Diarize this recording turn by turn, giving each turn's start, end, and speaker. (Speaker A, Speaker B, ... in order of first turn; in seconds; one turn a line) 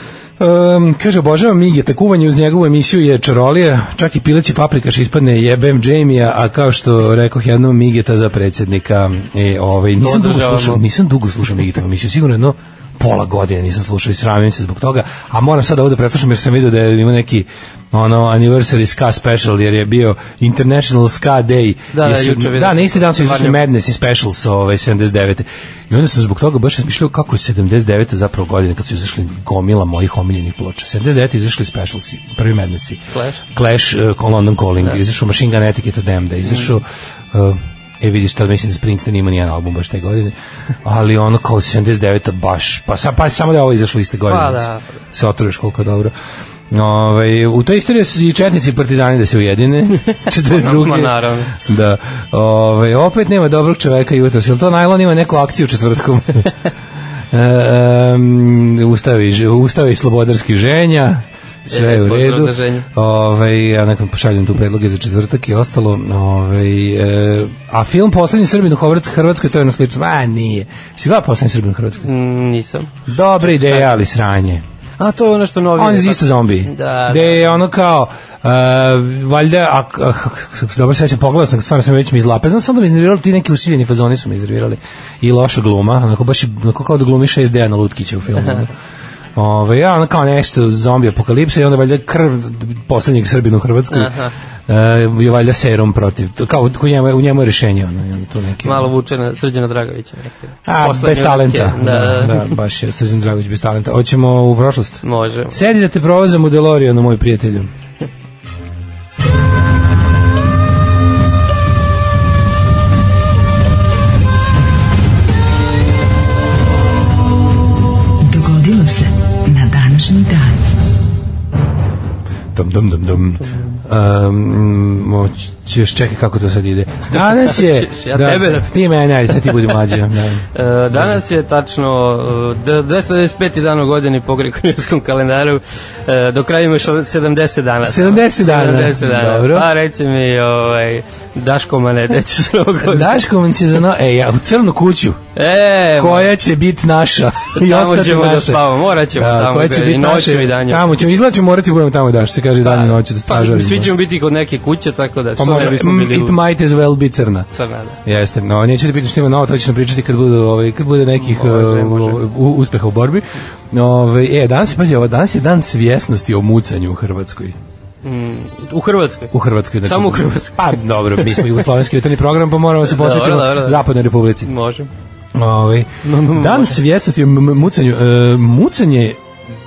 Speaker A: 0.4-46.1
Speaker B: 10.0-10.8
Speaker B: 21.9-23.6
Speaker B: 33.1-33.4
Speaker B: 44.3-45.0
Speaker A: 46.7-56.5
Speaker B: 50.2-51.6
Speaker A: 57.3-72.1
Speaker B: 61.7-62.9
Speaker B: 72.0-74.0
Speaker A: 73.1-74.6
Speaker B: 75.0-77.6
Speaker A: 75.8-88.7
Speaker A: 89.4-94.1
Speaker B: 93.9-94.3
Speaker A: 94.7-98.9
Speaker B: 98.6-102.5
Speaker A: 100.7-107.7
Speaker B: 105.0-105.6
Speaker C: 118.3-120.5
Speaker A: 122.5-131.2
Speaker B: 123.5-123.8
Speaker B: 127.4-128.7
Speaker B: 129.5-129.7
Speaker B: 130.5-143.1
Speaker A: 137.8-139.7
Speaker A: 142.8-145.2
Speaker B: 145.4-146.3
Speaker A: 145.9-153.9
Speaker B: 147.5-150.9
Speaker B: 152.6-156.4
Speaker A: 155.4-157.5
Speaker B: 157.5-158.0
Speaker A: 158.0-167.6
Speaker B: 161.2-162.2
Speaker B: 168.0-169.3
Speaker A: 169.3-174.5
Speaker B: 169.8-171.6
Speaker B: 172.8-173.9
Speaker B: 174.4-174.9
Speaker A: 175.3-179.2
Speaker B: 176.0-176.8